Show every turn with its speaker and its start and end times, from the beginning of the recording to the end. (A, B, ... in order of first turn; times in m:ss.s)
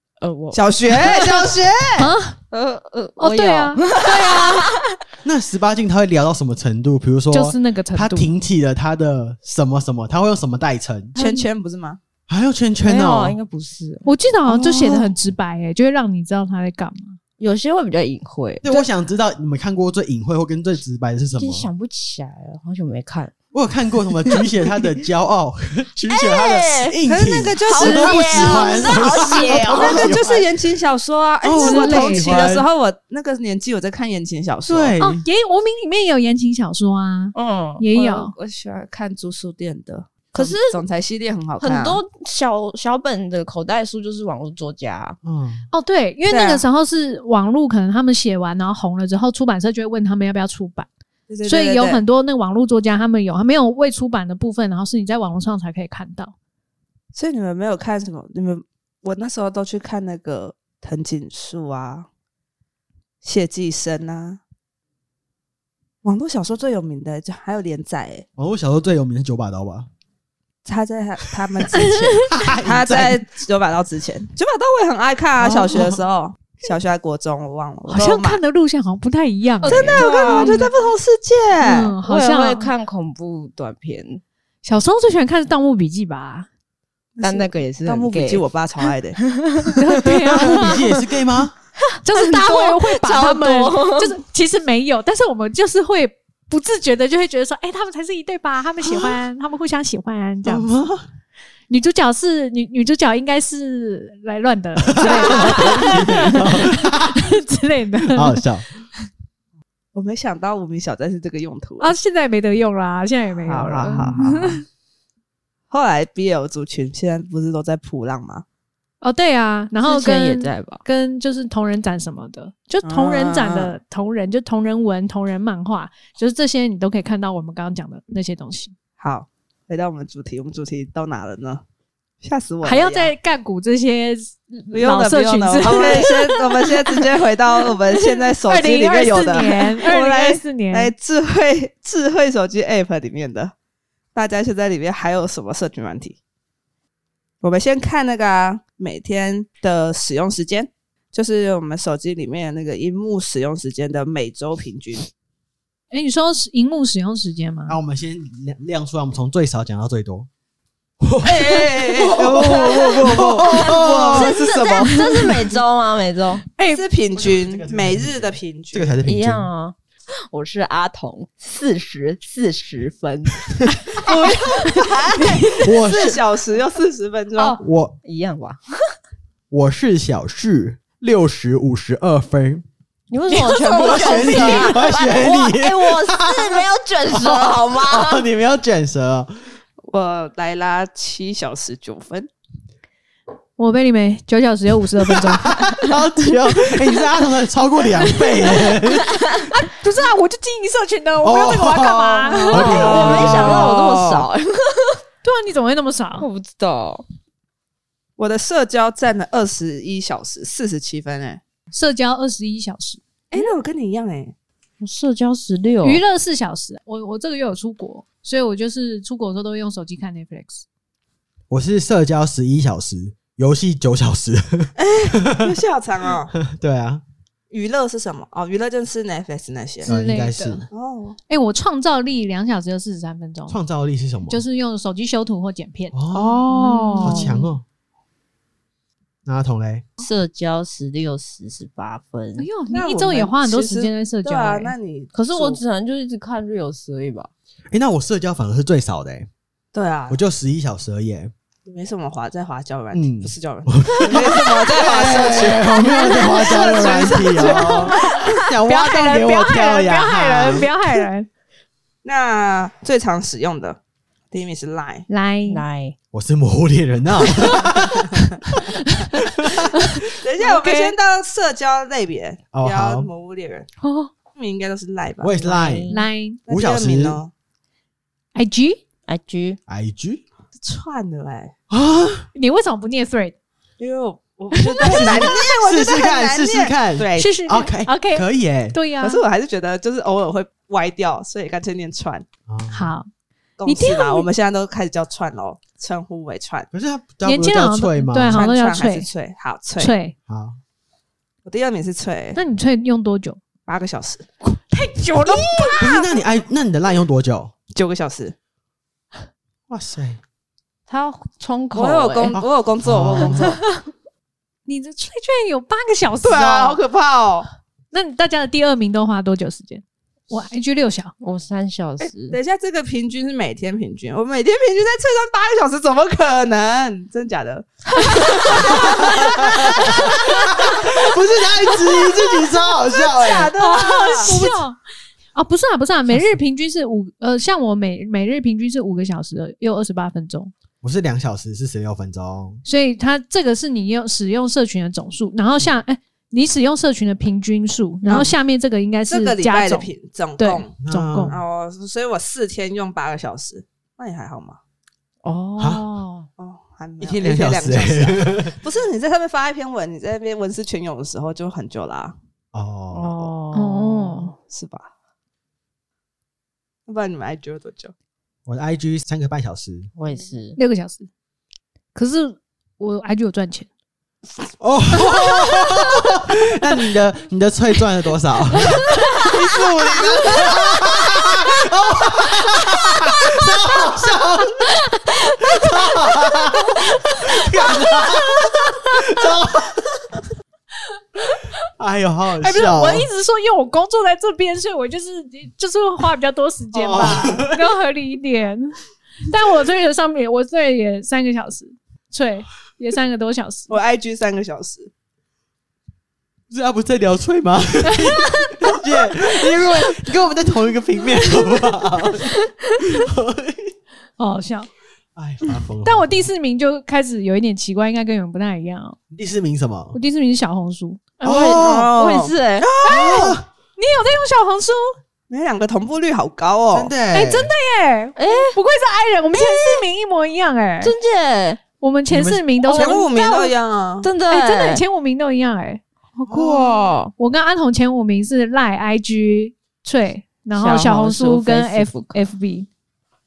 0:00.2-0:01.3 A
0:00.5-0:02.1 B
0:01.0-0:02.4 C
0:02.5-0:04.9 A
0:03.2-0:04.7 C
0:05.2-0:11.2 D
0:07.3-0:08.3 C
0:11.2-0:11.5 C
0:11.2-0:12.0 B
0:12.3-0:13.4 D
0:12.8-0:14.1 A
0:14.1-0:17.2 C
0:17.4-0:18.8 A
0:18.6-0:21.7 D
0:21.4-0:23.3 A
0:23.5-0:30.5 D
0:26.1-0:27.0 A
0:27.1-0:35.0 B
0:27.7-0:30.2 A
0:31.4-0:32.7 D
0:31.6-0:32.6 C
0:34.7-0:35.2 D
0:35.0-0:38.3 C
0:37.4-0:37.8 A
0:37.9-0:42.0 B
0:40.3-0:40.8 A
0:41.6-0:45.2 A
0:45.2-0:45.6 D
0:45.7-0:50.9 C
0:46.3-0:46.6 B
0:51.3-0:52.0 B
0:51.4-0:56.3 C
0:57.1-1:02.1 B
1:03.2-1:04.4 B
1:06.0-1:08.2 B
1:08.4-1:09.9 D
1:10.6-1:18.4 B
1:11.7-1:12.3 C
1:12.3-1:13.3 D
1:15.4-1:16.0 D
1:17.9-1:20.7 C
1:19.6-1:20.7 A
1:19.6-1:22.0 B
1:21.6-1:22.7 C
1:22.1-1:24.2 A
1:24.6-1:26.5 C
1:27.2-1:29.2 B
1:27.2-1:28.4 A
1:29.3-1:29.8 A
1:29.8-1:30.8 C
1:30.4-1:31.5 D
1:32.0-1:34.2 A
1:32.0-1:40.7 C
1:40.4-1:41.0 D
1:41.7-1:48.4 C
1:44.9-1:47.4 D
1:48.1-1:48.7 D
1:49.9-1:52.0 B
1:51.8-1:54.6 C
1:53.5-1:54.6 B
1:53.8-1:54.1 A
1:55.7-1:58.4 B
1:59.0-2:08.7 C
1:59.8-2:00.8 A
2:02.8-2:03.7 B
2:09.0-2:11.6 B
2:12.2-2:13.1 B
2:12.6-2:16.6 C
2:14.7-2:23.5 B
2:17.6-2:20.9 C
2:24.1-2:26.2 B
2:27.4-2:35.1 B
2:35.9-2:37.8 C
2:37.7-2:40.3 D
2:41.0-2:44.4 D
2:41.2-2:45.5 B
2:42.2-2:46.4 A
2:46.6-2:46.8 C
2:46.6-2:49.0 B
2:47.2-2:49.5 D
2:49.1-2:49.8 A
2:50.3-2:55.5 A
2:54.0-2:57.6 B
2:55.6-2:56.2 D
2:57.6-2:58.0 D
2:58.0-2:58.9 A
2:59.5-3:02.6 D
3:03.1-3:08.2 A
3:03.3-3:04.3 C
3:03.8-3:04.7 B
3:03.8-3:09.3 D
3:09.9-3:12.3 B
3:13.6-3:15.9 C
3:15.0-3:19.3 D
3:18.0-3:18.8 C
3:19.4-3:23.3 C
3:21.2-3:23.7 D
3:22.5-3:25.0 A
3:22.8-3:24.3 B
3:25.2-3:26.3 C
3:26.2-3:27.0 A
3:28.2-3:31.4 B
3:31.7-3:33.0 C
3:33.3-3:34.4 B
3:34.8-3:36.0 A
3:35.8-3:40.6 C
3:41.5-3:45.6 D
3:44.8-3:46.3 B
3:46.4-3:47.0 D
3:47.5-3:49.9 B
3:49.8-3:50.6 C
3:49.9-3:50.7 D
3:50.7-3:51.2 B
3:51.3-3:53.6 C
3:53.5-3:54.4 D
3:54.3-3:56.0 C
3:55.9-3:56.4 D
3:56.1-3:57.4 A
3:56.5-3:57.5 C
3:57.0-3:57.6 D
3:59.2-3:59.8 D
4:00.0-4:02.5 A
4:02.4-4:04.7 C
4:02.7-4:05.6 B
4:05.1-4:07.3 A
4:07.7-4:09.3 D
4:09.7-4:10.2 B
4:10.1-4:11.3 D
4:11.7-4:18.2 B
4:12.9-4:20.7 D
4:15.9-4:21.3 C
4:22.0-4:23.8 B
4:24.3-4:25.1 B
4:25.1-4:25.6 C
4:25.5-4:26.0 A
4:26.1-4:29.9 D
4:28.9-4:31.0 C
4:30.2-4:33.7 B
4:32.5-4:33.1 D
4:33.8-4:34.1 A
4:34.4-4:35.4 B
4:35.2-4:35.9 D
4:35.4-4:36.1 A
4:35.9-4:36.4 C
4:36.5-4:37.3 B
4:36.5-4:37.2 D
4:38.4-4:38.8 C
4:39.1-4:39.6 A
4:39.7-4:40.2 D
4:40.6-4:41.5 B
4:41.7-4:42.3 D
4:42.4-4:43.4 C
4:43.8-4:47.3 B
4:44.5-4:45.3 C
4:44.8-4:48.8 D
4:47.2-4:49.2 C
4:49.0-4:52.3 B
4:52.5-4:52.9 D
4:52.7-4:53.1 C
4:53.6-4:56.7 B
4:53.7-4:54.3 C
4:56.7-4:58.4 D
4:57.2-4:59.1 C
4:58.3-5:00.0 B
4:59.8-5:00.2 C
5:00.3-5:00.6 D
5:01.4-5:02.4 B
5:02.4-5:03.4 C
5:03.7-5:04.3 B
5:04.7-5:06.2 C
5:05.8-5:07.5 D
5:07.8-5:08.4 B
5:09.7-5:10.2 D
5:10.9-5:12.4 A
5:11.7-5:13.6 B
5:12.3-5:13.6 D
5:14.7-5:16.8 C
5:16.2-5:17.5 B
5:17.9-5:21.1 C
5:21.2-5:22.4 A
5:22.0-5:30.9 B
5:28.5-5:33.6 D
5:28.8-5:29.5 C
5:32.9-5:34.6 B
5:33.6-5:34.8 C
5:35.4-5:40.5 C
5:40.8-5:42.6 D
5:42.6-5:51.4 C
5:48.1-5:48.3 B
5:49.1-5:50.8 B
5:50.8-5:51.4 D
5:51.3-5:54.6 B
5:55.2-5:56.2 A
5:55.6-5:55.8 D
5:56.0-5:56.2 C
5:56.4-6:02.2 B
5:57.0-5:58.6 D
6:02.5-6:03.3 D
6:02.9-6:04.3 A
6:03.5-6:04.4 C
6:04.5-6:04.9 B
6:06.9-6:07.9 B
6:08.5-6:09.9 D
6:10.0-6:10.6 A
6:10.6-6:11.1 C
6:11.9-6:13.7 C
6:14.6-6:24.7 D
6:15.5-6:15.8 C
6:24.9-6:29.0 C
6:25.4-6:30.0 D
6:31.8-6:33.1 D
6:32.4-6:38.8 C
6:36.7-6:37.6 D
6:39.3-6:43.8 C
6:43.7-6:44.9 B
6:46.5-6:53.7 D
6:47.9-6:48.7 C
6:54.2-6:54.7 C
6:55.2-6:56.3 D
6:55.8-6:59.0 C
6:59.1-7:00.0 D
6:59.9-7:01.2 C
7:01.2-7:02.7 A
7:01.2-7:01.9 D
7:01.4-7:02.4 B
7:02.6-7:03.4 D
7:02.8-7:05.0 C
7:05.3-7:06.9 B
7:06.7-7:07.5 D
7:07.1-7:10.9 C
7:08.2-7:08.6 A
7:09.3-7:09.8 A
7:10.8-7:11.6 A
7:11.8-7:13.5 C
7:12.1-7:12.5 D
7:12.7-7:14.1 B
7:12.7-7:13.0 A
7:14.0-7:14.8 A
7:14.3-7:15.8 C
7:16.2-7:17.1 A
7:16.3-7:16.9 D
7:17.2-7:22.7 C
7:20.6-7:22.2 A